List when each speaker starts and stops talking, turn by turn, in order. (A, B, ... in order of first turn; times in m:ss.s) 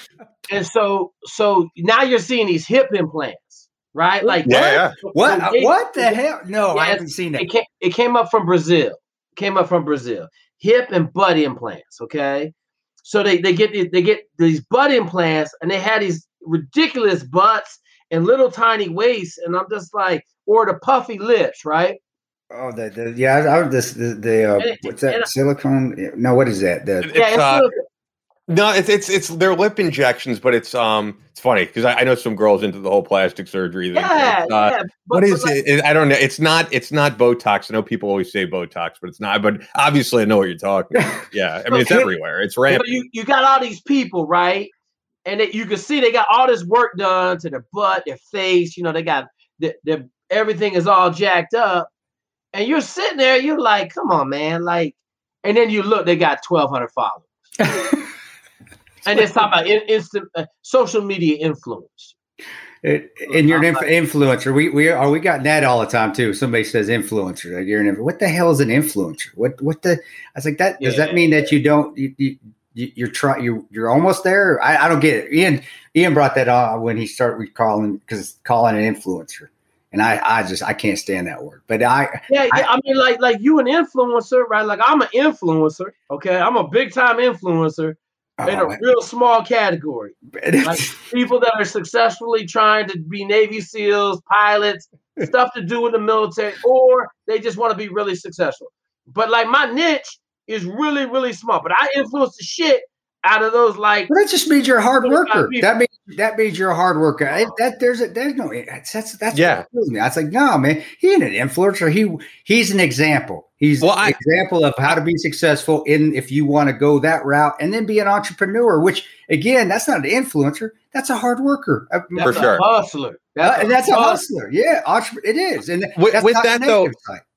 0:00.5-0:06.2 A
0:04.4-0:05.0 B
0:05.1-0:07.5 C
0:06.7-0:22.0 A
0:22.5-0:27.1 C
0:24.6-0:25.3 A
0:27.0-0:27.6 B
0:27.1-0:27.8 A
0:28.5-0:42.9 B
0:33.9-0:35.6 A
0:41.7-0:42.1 A
0:42.7-0:44.7 A
0:45.2-0:51.9 A
0:52.5-0:57.6 A
0:57.6-0:58.0 C
0:59.0-1:02.1 A
1:02.8-1:22.6 C
1:03.3-1:03.8 A
1:10.8-1:11.5 A
1:22.3-1:44.1 A
1:28.4-1:28.8 C
1:30.3-1:31.1 C
1:44.1-2:02.5 C
1:45.0-1:45.7 A
1:49.3-1:49.6 B
1:53.8-1:54.2 B
2:02.2-2:04.2 A
2:02.2-2:02.6 B
2:03.4-2:07.2 C
2:06.0-2:06.9 B